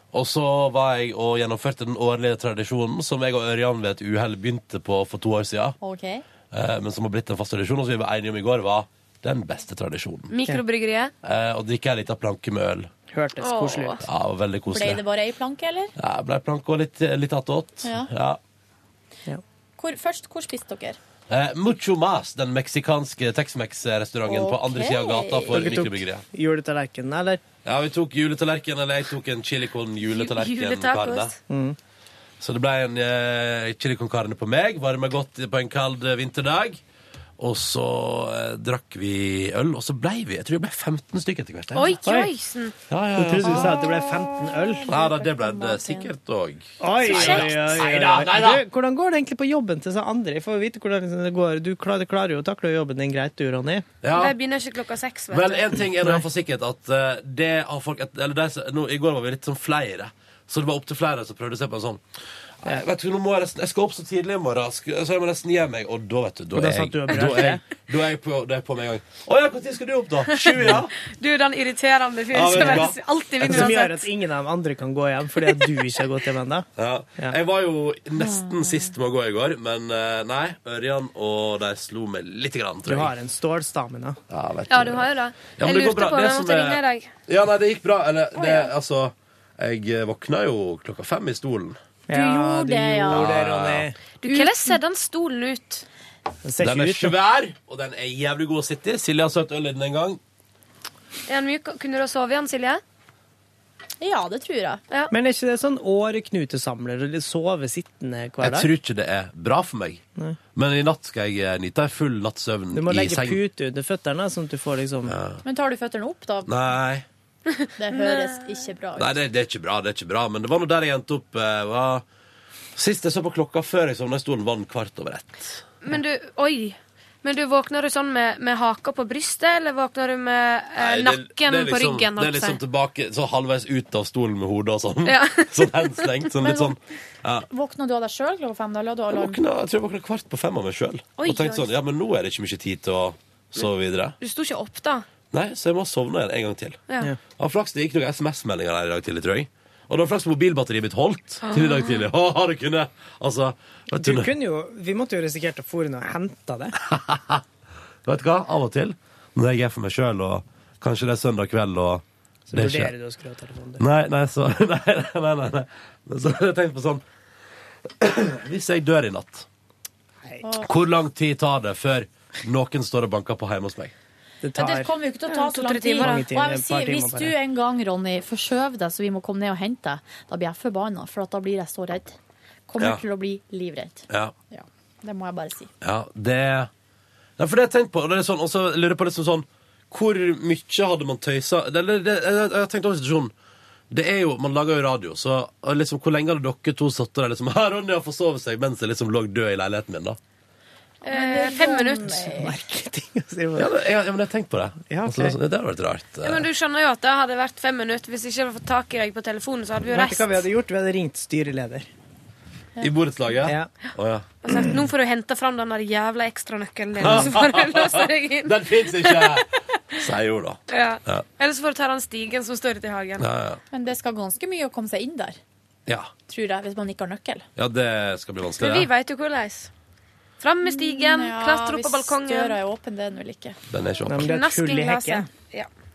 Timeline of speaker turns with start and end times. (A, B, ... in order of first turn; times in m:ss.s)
0:00.1-0:05.8 A
0:05.8-0:06.2 B
0:06.5-0:10.3 A
0:10.3-0:11.1 C
0:11.2-0:12.9 A
0:13.1-0:14.0 D
0:13.4-0:14.0 C
0:14.0-0:15.0 A
0:14.7-0:15.9 B
0:16.0-0:18.4 A
0:17.8-0:18.1 B
0:19.8-0:21.0 B
0:21.3-0:26.2 A
0:24.3-0:25.7 B
0:25.5-0:27.4 D
0:27.6-0:31.3 A
0:30.1-0:31.4 C
0:31.5-0:31.8 D
0:32.4-0:36.8 A
0:37.4-0:42.0 A
0:41.7-0:42.7 C
0:42.0-0:42.3 D
0:42.9-0:44.0 A
0:43.2-0:44.9 D
0:44.6-0:46.1 B
0:44.9-0:48.6 A
0:46.8-0:53.8 D
0:47.0-0:47.6 C
0:54.0-0:54.3 A
0:54.1-0:55.8 C
0:55.3-1:02.0 A
1:02.6-1:10.9 A
1:06.5-1:07.6 D
1:10.3-1:14.1 C
1:12.3-1:13.6 A
1:12.6-1:12.8 D
1:13.4-1:16.7 D
1:16.8-1:23.1 A
1:22.9-1:24.2 D
1:24.3-1:31.8 A
1:24.7-1:27.1 C
1:32.1-1:34.0 D
1:32.1-1:33.3 B
1:33.1-1:33.9 A
1:34.2-1:35.8 C
1:34.2-1:34.7 B
1:36.4-1:37.1 D
1:36.6-1:40.2 A
1:41.3-1:42.8 C
1:44.0-1:44.8 B
1:45.1-1:48.7 D
1:48.4-1:50.0 A
1:50.5-1:53.4 A
1:52.7-1:55.2 D
1:55.1-1:55.4 A
1:55.4-1:56.5 B
1:56.4-1:57.0 A
1:57.8-1:59.2 B
1:57.9-1:58.4 C
1:59.0-2:02.0 A
2:02.8-2:05.6 A
2:05.8-2:12.6 C
2:10.8-2:17.4 A
2:15.0-2:16.2 C
2:16.4-2:16.8 B
2:17.5-2:19.4 B
2:19.1-2:24.2 A
2:21.2-2:21.7 C
2:24.2-2:25.0 C
2:25.3-2:26.8 A
2:26.9-2:27.1 C
2:27.4-2:34.3 A
2:31.4-2:32.0 C
2:33.9-2:36.7 D
2:36.8-2:37.4 A
2:38.0-2:42.9 A
2:42.5-2:43.8 D
2:43.8-2:47.0 A
2:48.0-2:49.5 A
2:50.4-2:50.7 B
2:50.6-2:53.9 A
2:54.4-2:54.9 D
2:54.6-3:02.2 B
2:55.3-2:56.3 C
2:56.0-2:57.3 D
3:02.7-3:05.7 B
3:04.1-3:04.3 A
3:05.8-3:06.7 A
3:07.4-3:13.3 A
3:13.9-3:20.2 A
3:21.0-3:22.2 C
3:21.0-3:22.5 B
3:22.0-3:23.7 D
3:23.6-3:26.5 A
3:24.9-3:25.4 D
3:26.2-3:30.4 C
3:29.9-3:31.9 D
3:32.8-3:34.3 A
3:33.4-3:33.7 D
3:34.4-3:40.0 C
3:37.0-3:41.2 A
3:40.7-3:43.3 C
3:43.2-3:43.6 A
3:43.7-3:45.4 B
3:46.3-3:47.4 B
3:47.6-3:48.9 A
3:48.6-3:49.7 C
3:50.4-3:52.6 C
3:50.6-3:53.6 B
3:53.7-3:54.4 A
3:54.0-3:55.3 D
3:54.2-3:55.7 C